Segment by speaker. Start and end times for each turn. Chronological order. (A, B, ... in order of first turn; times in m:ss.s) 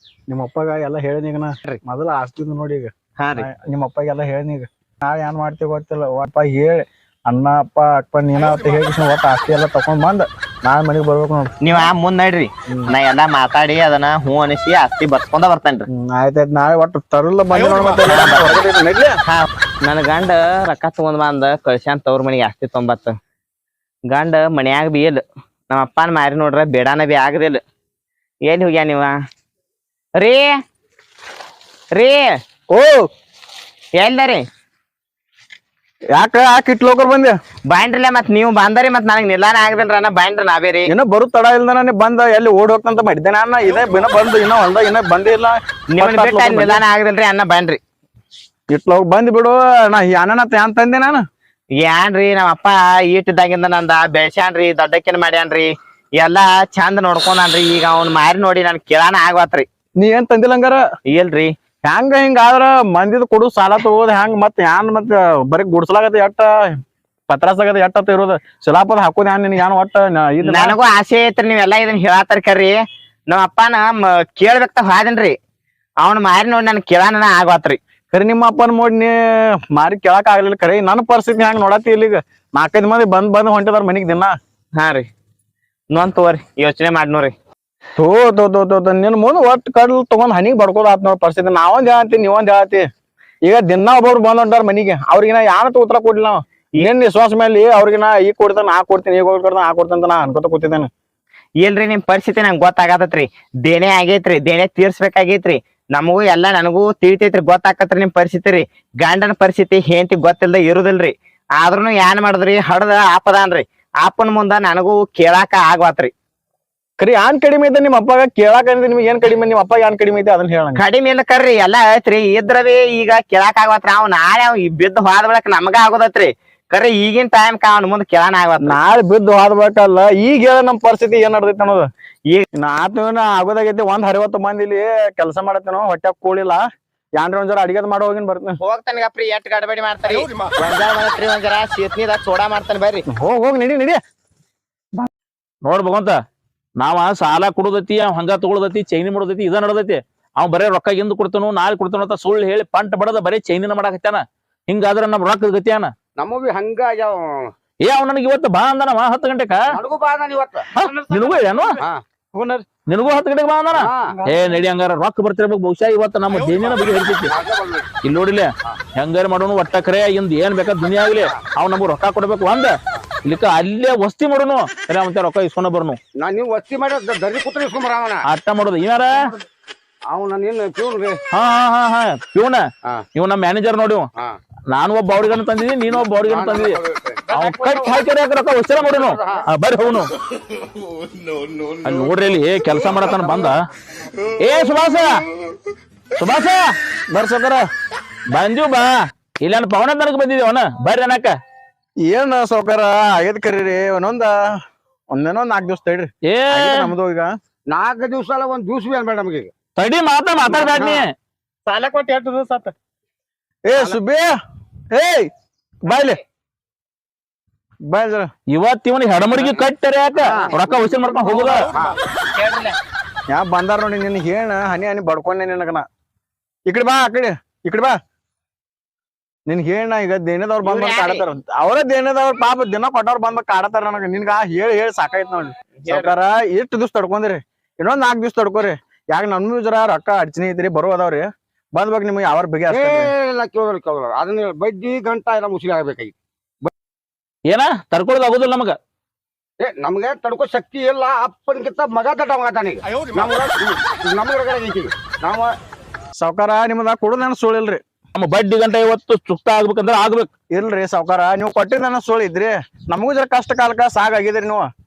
0:00.3-0:11.9 A
0:03.2-0:03.5 B
0:11.6-0:15.9 B
0:15.9-0:19.2 A
0:18.0-0:18.6 B
0:19.3-0:23.2 B
0:24.1-0:27.6 B
0:28.5-0:29.2 B
0:30.2-0:30.6 B
0:31.9-0:32.4 B
0:32.7-0:33.1 A
0:34.0-0:34.5 B
0:36.1-0:37.4 A
0:37.7-0:40.9 B
0:40.9-0:46.8 A
0:45.9-0:47.8 B
0:48.7-0:51.2 A
0:51.8-0:59.7 B
1:00.0-1:00.8 A
1:01.1-1:01.6 B
1:01.8-1:10.8 A
1:10.4-1:12.8 B
1:13.3-1:15.4 B
1:16.0-1:17.8 B
1:18.1-1:24.4 A
1:24.8-1:25.1 B
1:25.9-1:27.4 B
1:28.0-1:32.9 A
1:33.4-1:40.9 A
1:41.6-1:56.1 B
1:57.0-2:00.8 A
2:00.8-2:08.8 B
2:08.6-2:11.9 A
2:12.5-2:16.6 A
2:17.2-2:18.6 A
2:18.6-2:23.0 B
2:23.1-2:24.0 A
2:25.6-2:26.2 C
2:26.8-2:35.9 C
2:36.2-2:37.5 D
2:37.8-2:39.6 C
2:39.7-2:40.7 D
2:40.8-2:41.8 C
2:41.2-2:41.4 E
2:42.3-2:42.6 A
2:42.9-2:47.3 C
2:43.7-2:44.2 D
2:47.2-2:47.9 D
2:48.0-2:52.8 C
2:53.3-2:56.0 C
2:56.2-2:58.2 D
2:58.3-2:59.1 C
3:00.1-3:01.2 D
3:01.3-3:02.6 C
3:03.2-3:04.1 C
3:04.7-3:06.8 C
3:06.2-3:07.2 D
3:07.3-3:08.0 E
3:07.3-3:10.1 C
3:08.8-3:09.5 D
3:11.8-3:13.6 C
3:14.4-3:15.1 C
3:16.2-3:16.6 C
3:17.1-3:17.7 A
3:18.3-3:18.9 C
3:19.4-3:21.4 C
3:22.0-3:24.4 A
3:25.1-3:27.3 A
3:26.3-3:26.9 C
3:27.7-3:29.5 D
3:29.8-3:31.1 C
3:30.5-3:31.1 D
3:31.7-3:32.7 E
3:33.7-3:34.3 A
3:34.9-3:35.3 A
3:35.9-3:36.2 A
3:35.9-3:36.2 B
3:37.9-3:38.3 A
3:38.5-3:41.7 C
3:40.2-3:40.5 D
3:41.4-3:42.0 D
3:42.4-3:42.8 B
3:43.3-3:45.9 A
3:46.7-3:48.0 A
3:49.5-4:03.1 A
3:50.6-3:51.2 B
3:55.8-3:56.1 B
4:02.7-4:06.1 D
4:07.5-4:08.8 C
4:09.6-4:15.5 D
4:16.2-4:17.8 A
4:18.2-4:20.3 C
4:20.5-4:24.7 A